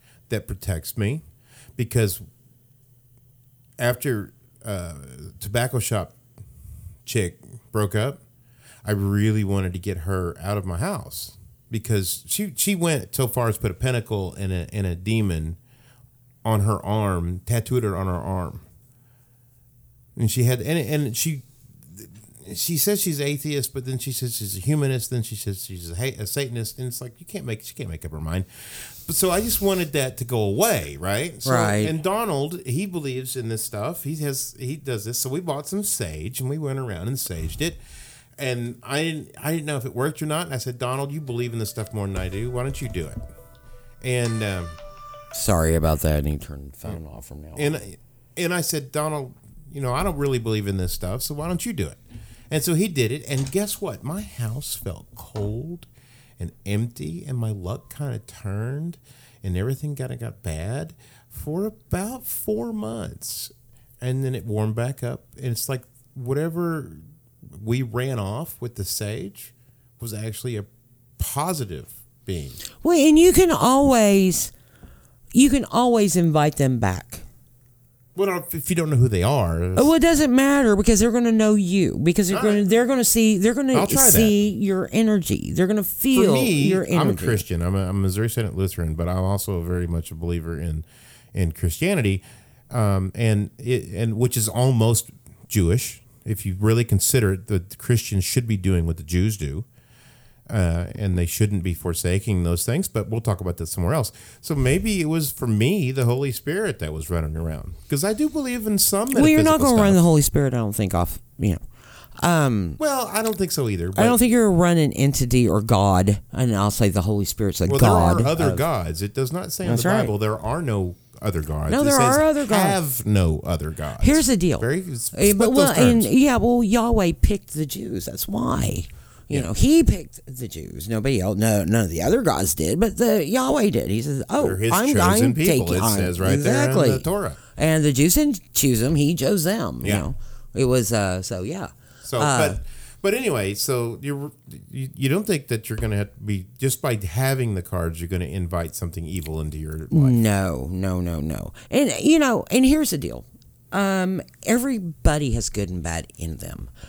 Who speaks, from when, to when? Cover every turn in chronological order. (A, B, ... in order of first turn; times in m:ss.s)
0:00.3-0:01.2 A
0:01.8-0:02.2 A
0:03.8-0:06.2 A
0:07.0-0:08.2 A
0:08.8-0:15.6 A
0:16.4-0:18.6 A
0:20.2-0:37.8 A
0:31.4-0:31.9 B
0:38.4-0:43.2 A
0:44.0-0:44.8 A
0:45.3-0:47.8 B
0:47.6-0:55.9 A
0:56.4-1:07.0 A
1:07.5-1:10.7 A
1:11.2-1:12.6 A
1:12.8-1:14.5 B
1:15.3-1:17.2 B
1:18.2-1:19.9 A
1:19.7-1:27.4 B
1:22.3-1:22.6 A
1:23.7-1:24.4 A
1:26.1-1:39.6 A
1:40.5-1:50.0 A
1:49.1-1:51.6 B
1:52.2-1:52.8 B
1:52.8-1:54.2 A
1:53.9-1:58.6 B
1:57.7-2:06.1 A
1:59.6-2:00.1 B
2:01.7-2:02.8 B
2:04.0-2:22.6 B
2:14.4-2:17.4 A
2:22.0-2:30.2 A
2:29.9-2:36.7 B